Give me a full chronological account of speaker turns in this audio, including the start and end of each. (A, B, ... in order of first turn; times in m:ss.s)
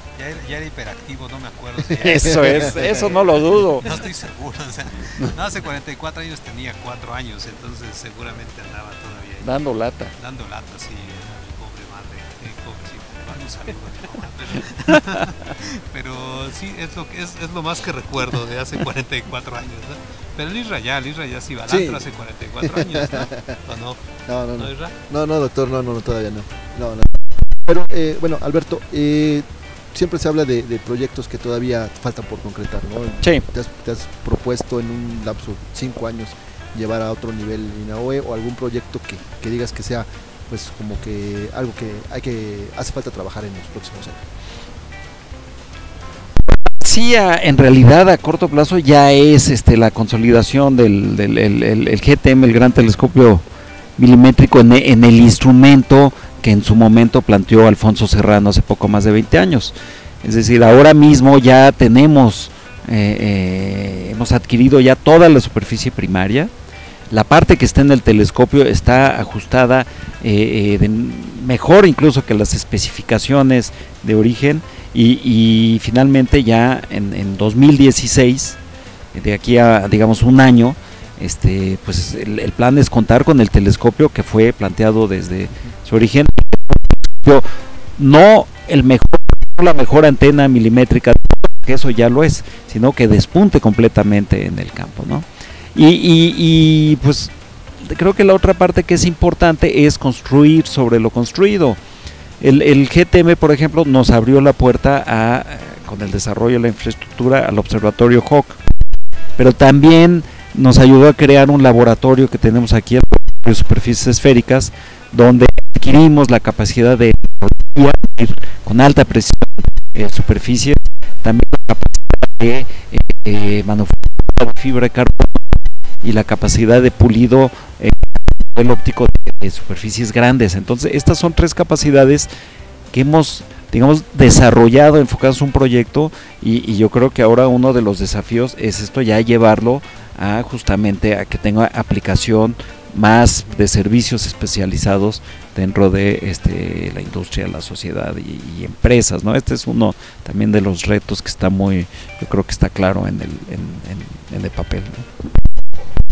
0:00.2-0:09.6 A
0:02.0-0:03.8 B
0:02.0-0:03.0 C
0:09.4-0:10.1 B
0:10.2-0:24.0 A
0:21.7-0:22.0 C
0:22.8-0:23.5 C
0:24.3-0:44.2 C
0:24.6-0:25.0 A
0:46.7-0:53.4 B
0:54.0-1:06.5 B
1:07.1-1:18.6 B
1:19.1-1:41.8 B
1:42.4-1:48.6 B
1:49.4-2:05.4 B
2:06.0-2:12.3 B
2:12.9-2:35.1 B